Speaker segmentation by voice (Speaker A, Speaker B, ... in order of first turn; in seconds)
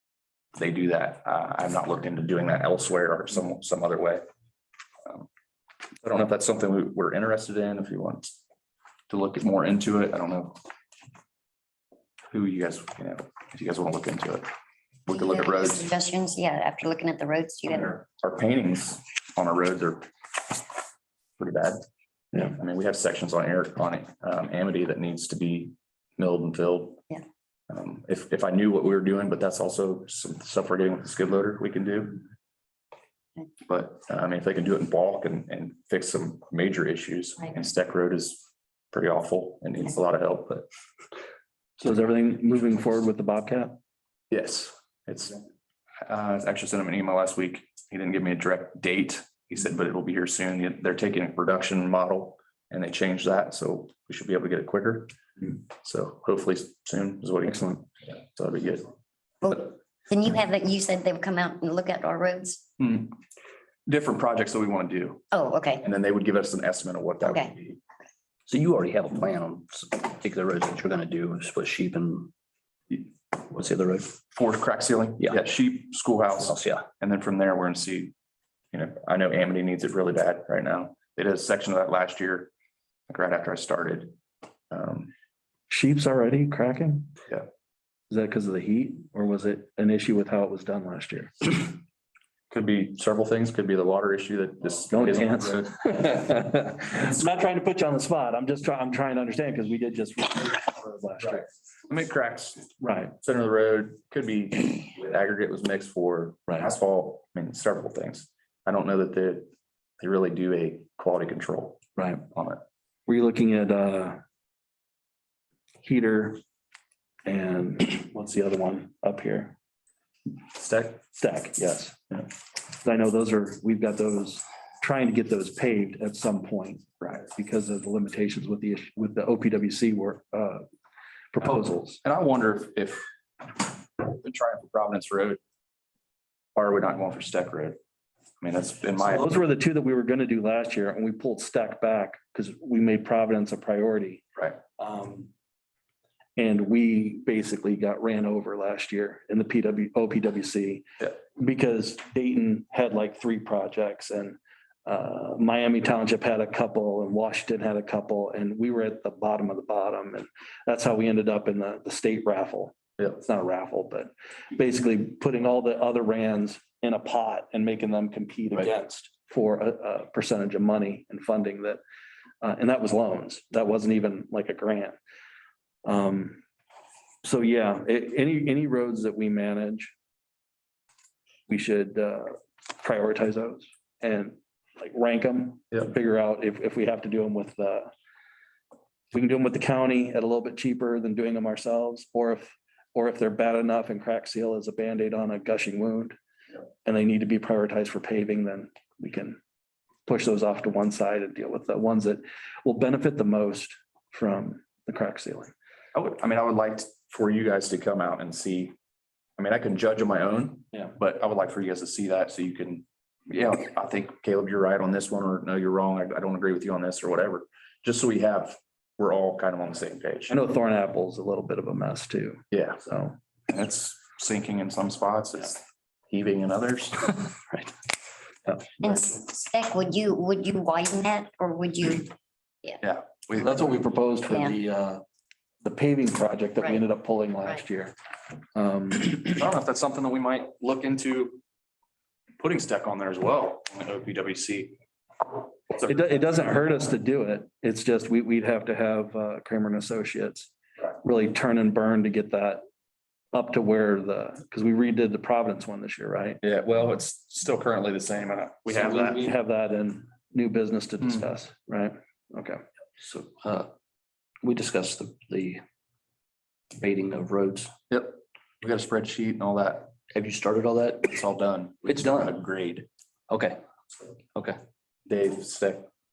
Speaker A: 0.6-4.2, 6.0-8.4, 9.1-10.6, 12.3-14.5, 15.1-15.9, 17.7-20.1, 21.4-21.8, 22.4-27.0, 27.7-32.2, 33.7-38.4, 38.9-40.7, 44.3-45.4, 46.1-58.9, 62.8-63.2, 63.9-67.8, 74.3-78.1, 78.7-82.5, 83.1-84.2, 84.7-85.1, 92.5-95.8, 101.9-102.7, 103.2-111.8, 112.3-112.6, 120.5-121.0, 132.0-135.4, 136.6-137.8, 138.4-139.3, 205.9-208.7, 209.4-220.4, 222.5-222.8, 223.5-227.1, 232.8-233.8, 239.2-241.4, 242.4-244.8, 245.7-246.1, 256.4-259.3, 267.9-269.9, 271.1-272.9, 275.1-275.9
Speaker B: 15.1-17.9, 59.4-62.6, 65.3-65.8, 67.2-67.5, 228.8-232.1, 234.3-234.6
Speaker C: 41.8-43.8, 85.7-87.1, 88.1-91.7, 94.9-101.5, 102.8-103.2, 112.0-112.3, 113.1-114.2, 115.8-116.4, 117.2-119.6, 121.1-122.2, 122.7-130.6, 131.3-132.0, 139.0-144.3, 144.8-145.3, 146.4-171.8, 172.4-175.0, 175.8-176.4, 177.2-179.9, 181.5-187.9, 189.1-196.2, 196.8-199.4, 200.1-205.5, 220.3-223.2, 233.4-235.0, 235.6-237.9, 238.5-239.4, 245.8-252.6, 253.3-256.4, 258.7-262.6
Speaker D: 68.5-72.3, 73.3-74.1, 76.4-76.9, 263.0-263.7, 264.4-265.6, 266.7-267.7, 270.1-271.2, 271.8-272.4, 273.3-273.6